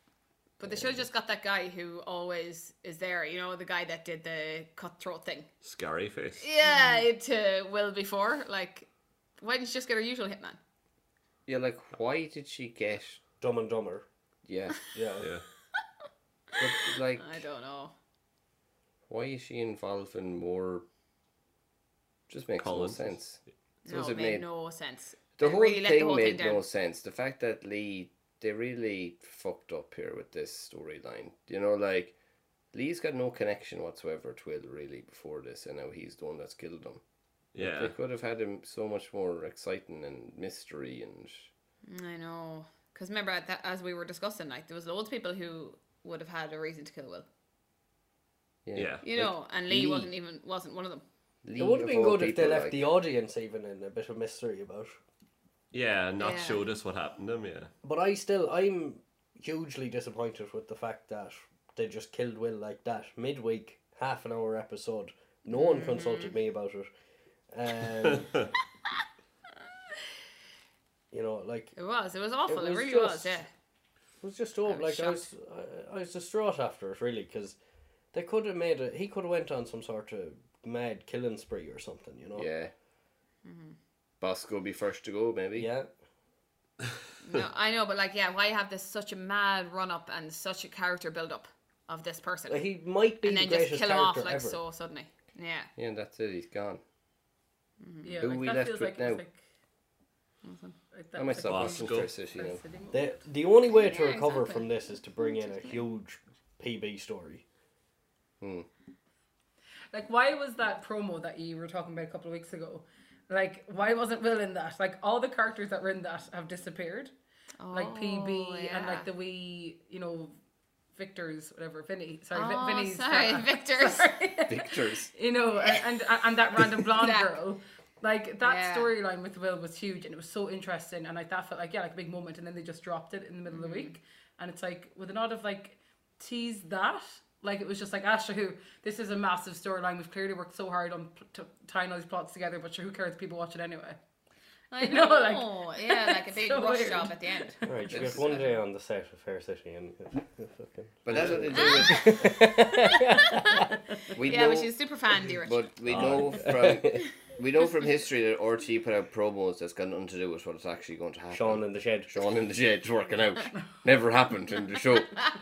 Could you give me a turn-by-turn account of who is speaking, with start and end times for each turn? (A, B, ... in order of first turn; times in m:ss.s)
0:00.6-0:05.5 A
0:00.6-0:01.0 B
0:05.6-0:06.4 C
0:06.4-0:10.6 A
0:11.5-0:13.2 B
0:13.4-0:14.0 D
0:14.4-0:15.2 B
0:14.9-0:15.3 D
0:16.6-0:17.4 B
0:17.1-0:17.9 A
0:19.1-0:20.8 B
0:22.3-0:24.4 B
0:22.6-0:23.4 C
0:23.8-0:26.6 A
0:25.4-0:32.1 B
0:32.7-0:37.0 B
0:37.5-0:37.9 C
0:37.6-0:41.5 B
0:41.9-0:47.3 A
0:48.6-0:50.1 B
0:48.7-0:49.0 C
0:49.0-0:51.0 A
0:51.4-0:52.8 B
0:51.6-0:55.0 D
0:55.7-0:57.7 C
0:56.2-0:56.6 A
0:57.8-1:06.9 D
1:05.5-1:06.4 A
1:07.5-1:08.5 D
1:11.1-1:11.7 D
1:11.8-1:13.5 A
1:12.5-1:13.4 D
1:14.2-1:17.6 D
1:14.7-1:15.3 A
1:18.1-1:22.5 D
1:22.4-1:22.7 B
1:23.4-1:23.8 A
1:24.2-1:25.7 B
1:25.6-1:25.9 D
1:27.2-1:32.6 A
1:32.5-1:34.6 D
1:33.2-1:35.7 A
1:35.8-1:36.8 B
1:37.8-1:38.2 A
1:38.0-1:39.4 E
1:38.2-1:39.2 B
1:40.4-1:40.8 A
1:40.9-1:43.1 E
1:41.2-1:42.6 B
1:41.4-1:42.1 C
1:42.9-1:47.4 D
1:43.7-1:44.7 A
1:45.2-1:45.8 A
1:48.4-1:48.7 B
1:49.9-1:57.1 E
1:57.6-1:59.0 A
1:57.7-2:00.4 E
2:00.9-2:24.0 E
2:02.3-2:04.4 A
2:04.5-2:05.1 B
2:06.9-2:07.3 A
2:08.4-2:08.9 A
2:13.5-2:14.0 A
2:24.7-2:27.6 A
2:24.8-2:28.0 E
2:27.6-2:33.8 D
2:27.9-2:28.3 B
2:31.0-2:32.4 B
2:31.5-2:33.6 A
2:34.1-2:34.7 B
2:34.2-2:35.7 A
2:35.3-2:45.3 B
2:35.9-2:36.3 C
2:35.9-2:37.0 D
2:41.3-2:42.1 D